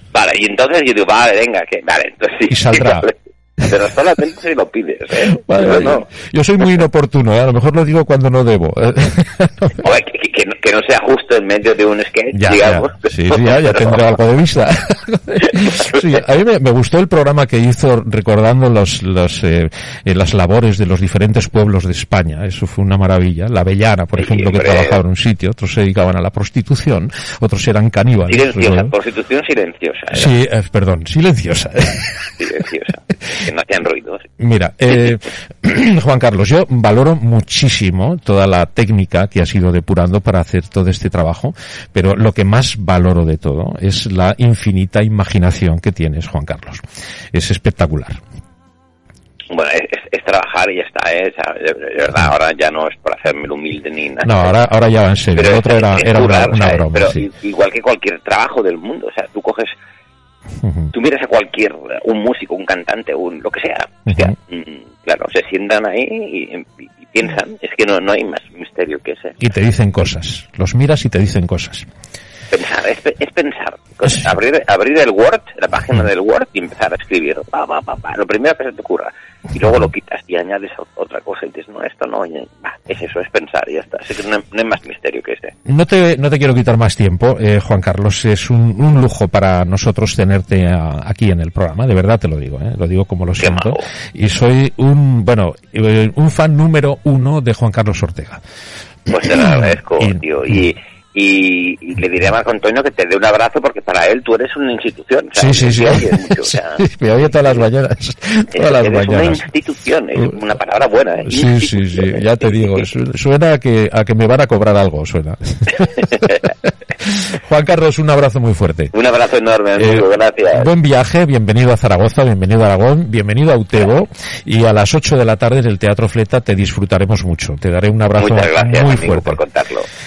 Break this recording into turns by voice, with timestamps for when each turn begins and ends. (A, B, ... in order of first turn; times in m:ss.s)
0:00.1-0:06.1 A
0:02.5-0:03.1 B
0:05.4-0:09.8 B
0:09.8-0:14.1 A
0:12.3-0:28.9 B
0:24.2-0:25.0 A
0:28.3-0:30.3 A
0:30.1-0:32.3 B
0:32.4-0:34.2 A
0:34.4-0:48.2 B
0:49.5-0:54.6 A
0:54.2-0:57.3 B
0:55.3-0:59.8 A
1:00.6-1:00.9 B
1:00.9-1:09.4 A
1:04.1-1:04.3 B
1:09.4-1:11.8 B
1:12.5-1:25.5 A
1:25.6-1:38.4 B
1:33.4-1:33.9 A
1:39.1-1:40.2 B
1:39.1-1:47.6 A
1:45.3-1:49.4 B
1:48.5-1:52.9 A
1:51.2-1:58.9 B
1:56.1-1:56.4 A
1:58.9-2:00.7 A
1:59.8-2:09.4 B
2:08.2-2:09.9 A